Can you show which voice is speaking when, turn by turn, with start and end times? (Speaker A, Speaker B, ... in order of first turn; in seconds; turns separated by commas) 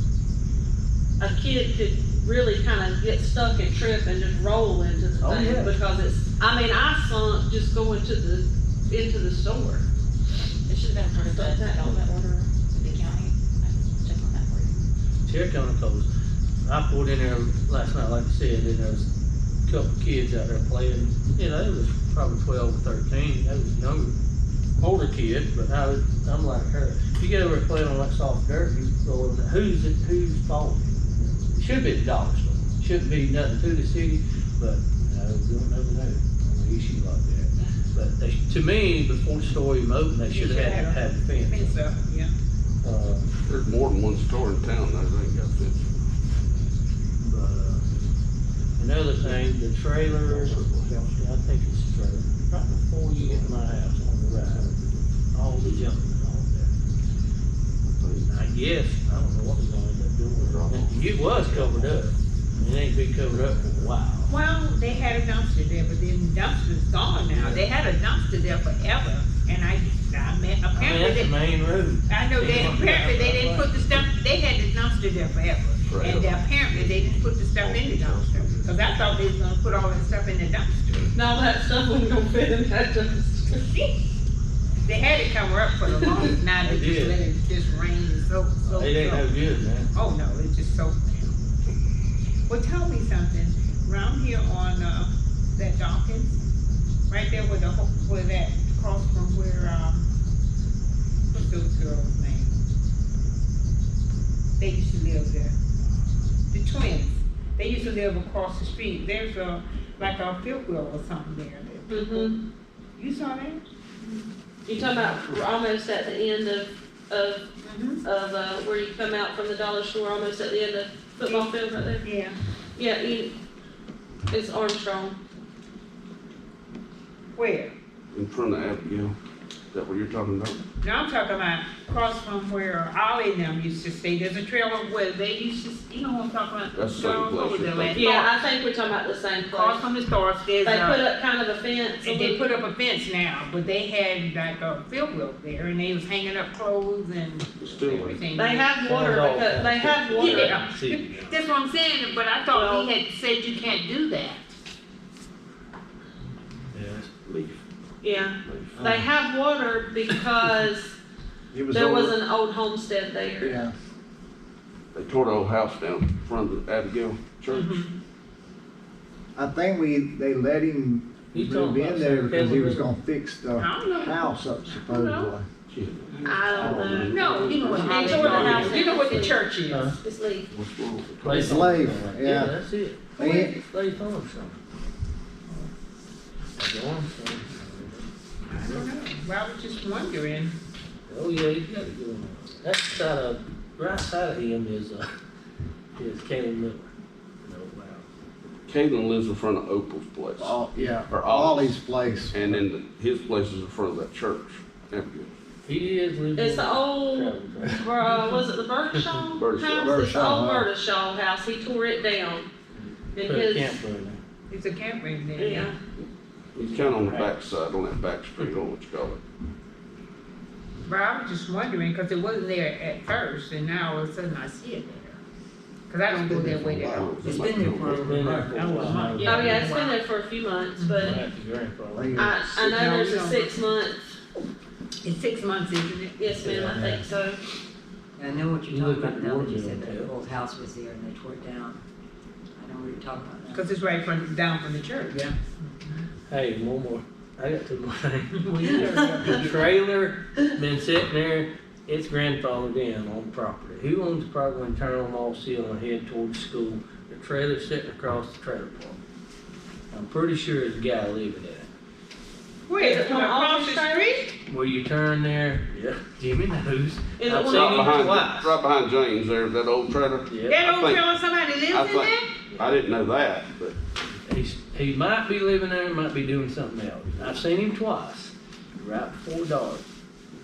Speaker A: 1.2-9.9, Speaker B: 5.2-5.8, Speaker C: 10.7-14.8, Speaker A: 11.0-13.0, Speaker B: 15.2-16.1, Speaker B: 16.6-19.1, Speaker B: 19.7-24.2, Speaker B: 24.8-41.9, Speaker D: 40.3-42.3, Speaker B: 42.8-43.3, Speaker E: 43.4-46.1, Speaker B: 47.2-47.9, Speaker B: 48.8-54.8, Speaker E: 50.2-51.1, Speaker E: 53.2-55.8, Speaker B: 55.3-56.7, Speaker E: 57.8-58.3, Speaker B: 58.2-64.3, Speaker E: 60.4-62.0, Speaker E: 63.3-63.9, Speaker D: 64.3-71.3, Speaker B: 67.3-67.6, Speaker B: 70.8-74.0, Speaker D: 72.1-81.1, Speaker E: 75.8-78.9, Speaker A: 81.1-83.6, Speaker D: 83.5-84.1, Speaker D: 84.8-89.3, Speaker B: 86.6-87.2, Speaker B: 88.6-89.9, Speaker D: 89.9-91.3, Speaker D: 92.5-96.4, Speaker D: 97.1-100.1, Speaker D: 101.3-102.5, Speaker D: 104.6-105.6, Speaker D: 106.5-112.3, Speaker A: 111.9-112.4, Speaker D: 113.0-114.2, Speaker A: 114.7-117.5, Speaker D: 117.6-118.0, Speaker A: 118.0-122.1, Speaker D: 121.2-122.3, Speaker A: 122.8-123.4, Speaker A: 124.3-125.2, Speaker D: 127.4-127.8, Speaker E: 128.1-129.2, Speaker E: 129.7-130.6, Speaker D: 130.8-138.3, Speaker E: 136.7-138.2, Speaker A: 137.9-139.8, Speaker D: 139.5-141.0, Speaker A: 140.6-142.5, Speaker D: 142.0-148.8, Speaker E: 147.6-148.2, Speaker A: 148.3-150.6, Speaker B: 148.8-151.3, Speaker D: 150.2-154.5, Speaker A: 152.5-152.9, Speaker B: 156.7-157.1, Speaker E: 157.2-157.6, Speaker A: 158.0-160.9, Speaker E: 158.4-158.8, Speaker F: 158.8-159.1, Speaker F: 161.5-162.2, Speaker A: 161.7-163.6, Speaker F: 163.4-163.7, Speaker E: 164.9-167.9, Speaker D: 167.5-167.9, Speaker F: 169.3-175.5, Speaker B: 171.3-172.9, Speaker D: 173.6-175.3, Speaker E: 175.7-178.8, Speaker A: 176.2-179.4, Speaker F: 176.5-177.6, Speaker D: 176.7-180.0, Speaker F: 178.1-178.7, Speaker B: 179.7-180.0, Speaker A: 180.0-180.5, Speaker E: 180.5-181.9, Speaker B: 181.2-184.6, Speaker F: 181.3-182.6, Speaker F: 183.2-183.6, Speaker B: 186.6-188.1, Speaker D: 188.5-190.6, Speaker B: 191.1-195.1, Speaker B: 196.0-196.9, Speaker B: 197.4-198.1, Speaker E: 198.7-201.8, Speaker F: 200.4-202.6, Speaker E: 202.3-205.3, Speaker B: 205.7-207.9, Speaker A: 206.4-212.5, Speaker E: 209.4-210.0, Speaker F: 209.8-210.7, Speaker B: 212.8-214.2, Speaker A: 213.2-213.8, Speaker D: 214.5-215.7, Speaker A: 215.4-215.8, Speaker E: 216.6-219.2, Speaker B: 216.6-217.3, Speaker D: 220.9-225.2, Speaker D: 225.9-230.0, Speaker G: 226.2-226.5, Speaker E: 226.5-228.1, Speaker G: 227.2-229.0, Speaker B: 227.9-229.7, Speaker A: 229.2-231.2, Speaker D: 230.8-231.2, Speaker B: 231.0-232.2, Speaker F: 231.9-232.3, Speaker A: 232.2-234.0, Speaker D: 232.5-233.7, Speaker D: 235.0-236.3, Speaker A: 236.2-237.4, Speaker F: 236.4-237.0, Speaker G: 236.6-237.0, Speaker G: 238.2-241.8, Speaker B: 238.7-240.1, Speaker G: 242.6-243.7, Speaker D: 243.5-246.1, Speaker B: 246.3-259.0, Speaker D: 248.3-249.6, Speaker B: 259.9-261.7, Speaker D: 262.7-264.3, Speaker A: 262.8-264.2, Speaker B: 264.5-268.6, Speaker A: 267.2-268.2, Speaker E: 267.4-271.0, Speaker B: 270.3-270.6, Speaker D: 270.5-272.4, Speaker E: 271.7-273.8, Speaker B: 274.3-279.9